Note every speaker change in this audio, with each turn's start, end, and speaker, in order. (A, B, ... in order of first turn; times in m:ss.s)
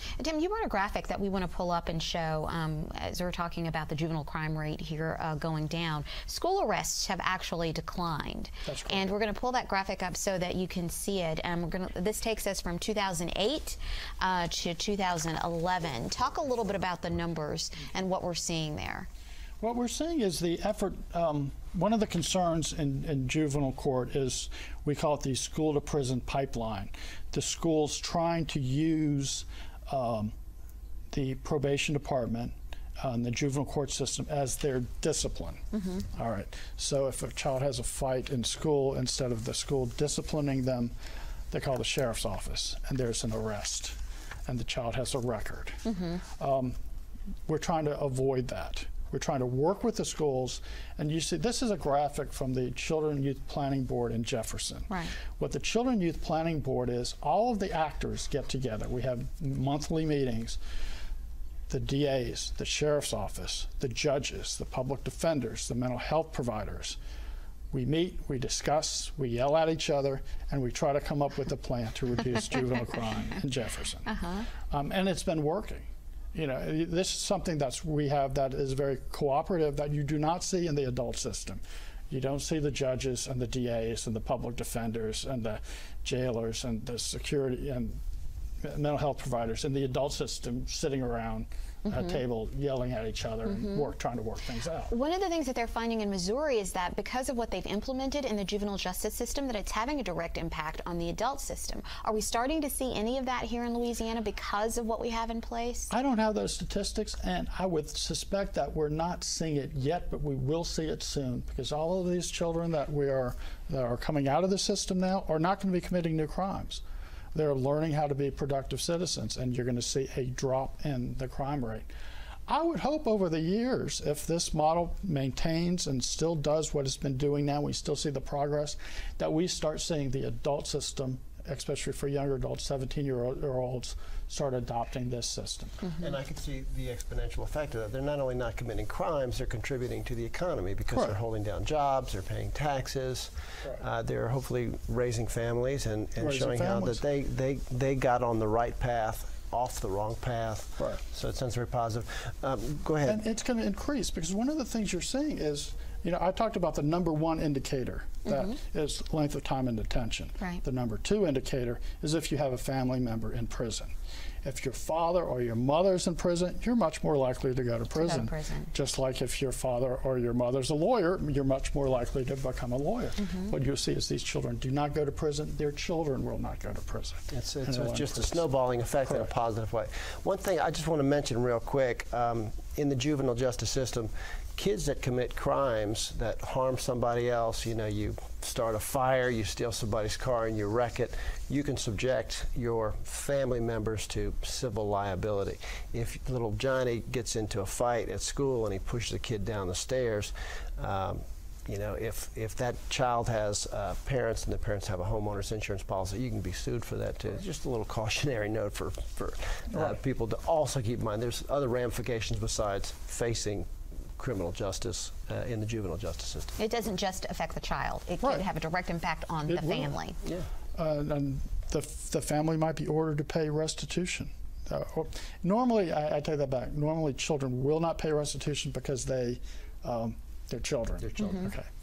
0:00.2-0:19.1 A
0:08.6-0:09.0 B
0:19.6-0:30.3 B
0:31.1-0:35.6 B
0:35.7-0:36.0 A
0:36.1-0:40.9 B
0:41.5-0:46.8 B
0:45.8-0:46.2 A
0:47.5-1:00.6 B
0:54.9-0:55.1 A
1:01.7-1:07.0 B
1:07.7-1:14.1 B
1:14.0-1:14.5 A
1:14.7-1:28.0 B
1:28.6-1:34.9 B
1:31.9-1:32.2 A
1:33.4-1:33.9 A
1:34.9-1:45.9 A
1:45.9-1:56.8 B
1:57.3-2:01.9 B
2:02.5-2:15.8 B
2:15.8-2:16.1 A
2:16.0-2:33.2 C
2:26.2-2:27.0 B
2:33.0-2:43.9 B
2:38.2-2:38.5 A
2:44.4-2:58.4 B
2:47.9-2:48.7 A
2:53.2-2:53.5 A
2:57.3-3:36.6 C
3:36.6-3:40.2 A
3:39.5-3:39.9 B
3:40.2-3:40.5 C
3:40.7-3:51.7 B
3:51.0-3:51.4 C
3:51.2-3:51.5 A